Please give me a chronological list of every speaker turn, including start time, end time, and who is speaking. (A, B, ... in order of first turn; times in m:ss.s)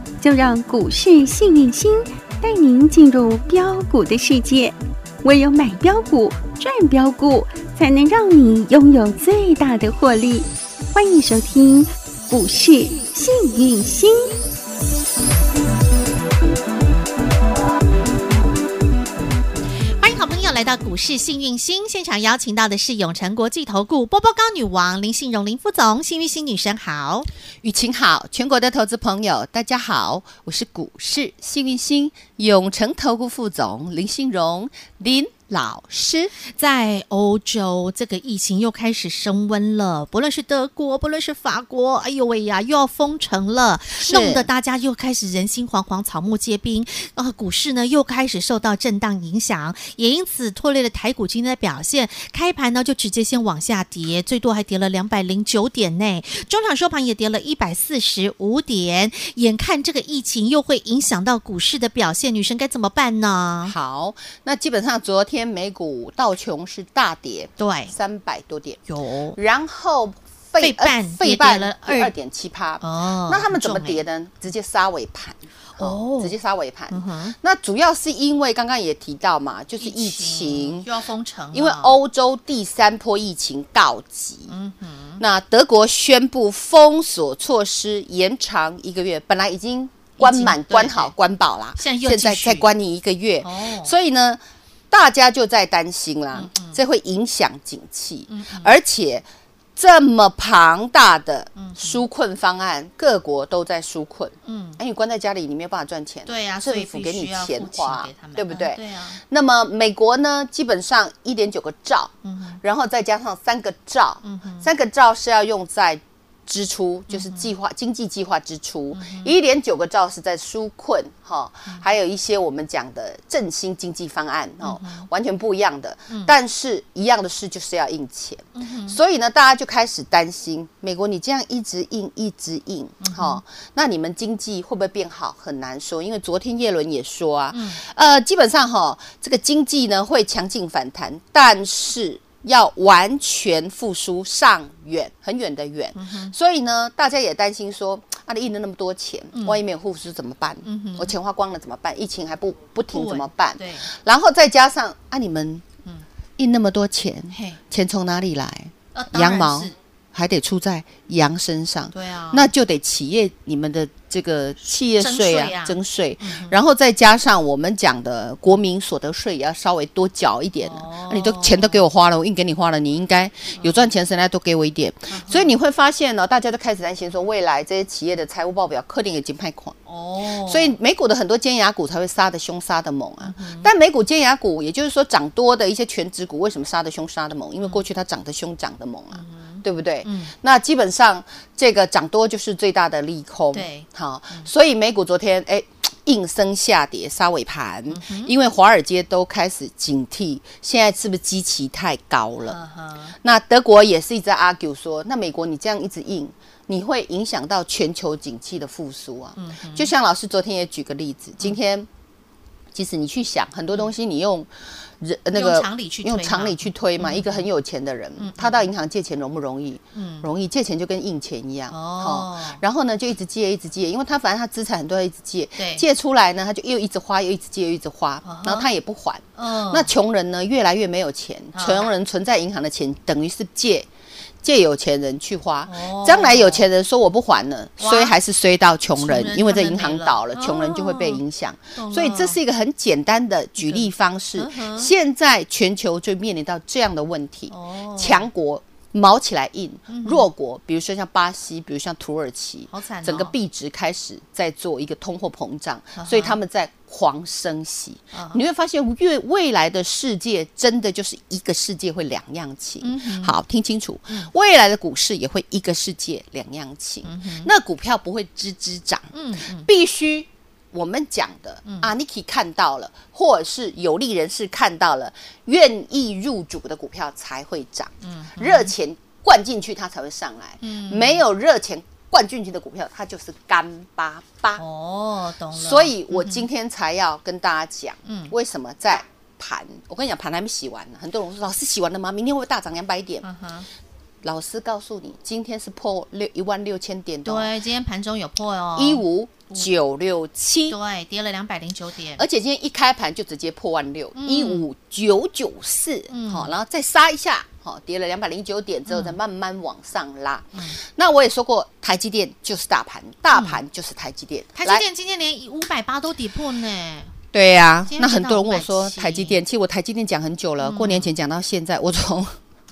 0:00.2-0:14.4 A
0:20.0-0:27.3 B
0:27.6-0:36.3 C
0:36.5-1:03.7 B
0:44.0-0:44.5 C
1:03.6-1:08.8 C
1:07.6-1:07.9 B
1:08.9-1:09.4 B
1:09.4-1:20.9 C
1:10.6-1:12.1 B
1:12.8-1:14.0 B
1:15.8-1:16.3 B
1:16.9-1:17.3 B
1:19.8-1:22.0 B
1:21.5-1:24.5 C
1:24.5-1:25.2 B
1:25.2-2:35.6 C
1:30.2-1:31.1 B
1:31.8-1:32.7 B
1:33.4-1:33.9 B
1:36.3-1:36.8 B
1:38.3-1:38.7 B
1:41.6-1:42.0 B
1:44.4-1:44.8 B
1:46.2-1:49.2 B
1:52.2-1:52.6 B
1:54.2-1:54.7 B
1:57.1-1:57.5 B
1:58.9-1:59.3 B
2:04.6-2:05.1 B
2:06.1-2:06.3 B
2:08.5-2:09.0 B
2:13.0-2:13.4 B
2:17.5-2:17.8 B
2:25.9-2:26.3 B
2:29.3-2:29.6 B
2:30.6-2:31.1 B
2:32.9-2:33.9 B
2:36.4-2:59.7 C
2:37.3-2:37.6 B
2:38.9-2:39.7 B
2:41.9-2:42.5 B
2:44.8-2:46.6 B
2:50.6-2:51.8 B
2:53.6-2:53.9 B
2:55.1-2:55.5 B
2:59.9-3:00.8 B
3:00.4-3:22.6 C
3:03.2-3:03.7 B
3:09.1-3:10.3 B
3:13.5-3:14.5 B
3:17.9-3:18.3 B
3:22.4-3:23.1 B
3:23.2-3:31.9 C
3:29.4-3:29.9 B
3:32.7-3:53.9 C
3:35.3-3:37.5 B
3:38.2-3:38.7 B
3:39.9-3:40.3 B
3:41.7-3:42.6 B
3:45.6-3:45.8 B
3:48.2-3:48.7 B
3:49.4-3:49.9 B
3:51.5-3:51.9 B
3:54.4-4:44.6 C
3:55.7-3:56.6 B
3:57.8-3:58.2 B
3:58.9-4:01.2 B
4:01.8-4:02.4 B
4:03.6-4:04.9 B
4:07.5-4:08.3 B
4:09.9-4:10.3 B
4:12.7-4:13.3 B
4:16.0-4:16.4 B
4:18.1-4:18.4 B
4:22.8-4:23.3 B
4:27.0-4:27.5 B
4:29.1-4:29.7 B
4:31.6-4:31.9 B
4:38.0-4:38.7 B
4:40.6-4:41.2 B
4:44.6-4:46.4 B
4:45.5-4:53.2 C
4:48.0-4:48.3 B
4:53.2-4:53.7 B
4:54.2-4:57.5 C
4:57.2-4:59.7 B
4:58.7-5:00.8 C
5:00.7-5:02.2 B
5:02.2-5:14.8 C
5:04.1-5:04.6 B
5:06.1-5:06.5 B
5:08.9-5:09.2 B
5:10.5-5:10.8 B
5:13.3-5:13.6 B
5:14.5-5:17.1 B
5:17.3-5:22.4 C
5:17.9-5:19.4 B
5:20.6-5:21.1 B